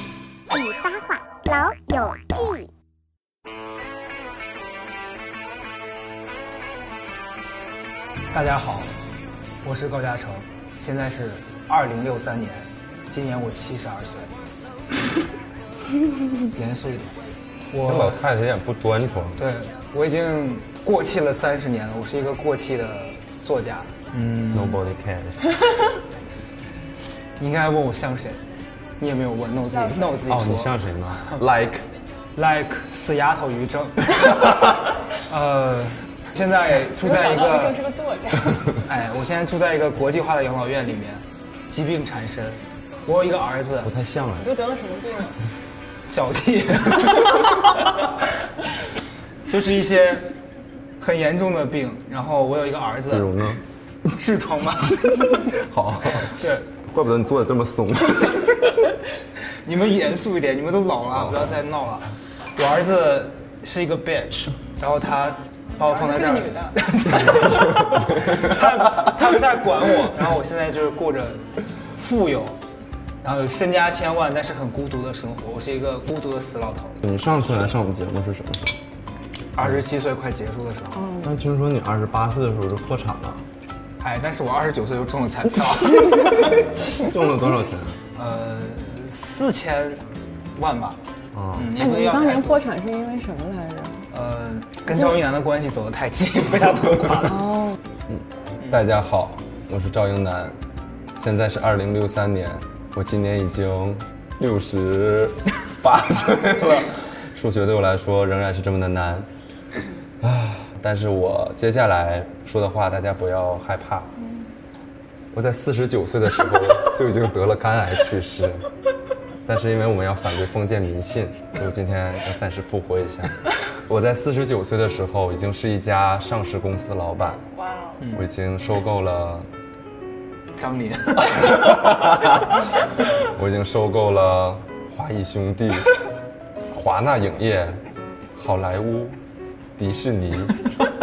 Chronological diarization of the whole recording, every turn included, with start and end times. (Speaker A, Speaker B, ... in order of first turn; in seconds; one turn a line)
Speaker A: 0.5-2.7
Speaker B: 8.3-8.9
Speaker B: 9.6-14.3
Speaker B: 16.5-17.2
Speaker B: 17.7-18.2
Speaker C: 17.8-19.4
Speaker B: 19.4-24.8
Speaker C: 24.5-25.6
Speaker B: 27.4-28.4
Speaker B: 29.0-30.7
Speaker D: 29.7-30.2
Speaker C: 30.2-31.9
Speaker B: 32.4-37.8
Speaker D: 37.0-38.7
Speaker B: 38.8-43.9
Speaker C: 43.8-44.5
Speaker D: 44.4-45.4
Speaker B: 46.1-47.8
Speaker B: 49.5-50.3
Speaker B: 51.0-53.3
Speaker C: 53.1-53.6
Speaker B: 54.1-55.5
Speaker C: 55.4-58.8
Speaker B: 56.3-56.6
Speaker B: 59.6-72.6
Speaker C: 61.1-61.5
Speaker D: 65.8-66.8
Speaker C: 67.2-68.6
Speaker B: 73.2-77.0
Speaker C: 77.0-78.8
Speaker B: 79.5-81.1
Speaker D: 81.0-81.3
Speaker C: 81.2-83.4
Speaker B: 84.0-86.7
Speaker C: 85.5-88.0
Speaker B: 88.1-90.0
Speaker B: 90.5-91.0
Speaker C: 91.3-91.8
Speaker B: 91.5-92.5
Speaker D: 91.8-94.0
Speaker B: 94.1-97.5
Speaker D: 97.3-97.8
Speaker C: 98.1-100.6
Speaker C: 101.2-109.3
Speaker C: 110.2-114.1
Speaker C: 115.3-118.6
Speaker C: 119.5-127.4
Speaker D: 127.5-128.0
Speaker C: 128.1-129.5
Speaker B: 130.6-131.7
Speaker C: 131.7-132.5
Speaker C: 133.2-135.9
Speaker C: 136.7-137.8
Speaker C: 138.4-139.2
Speaker C: 139.8-140.5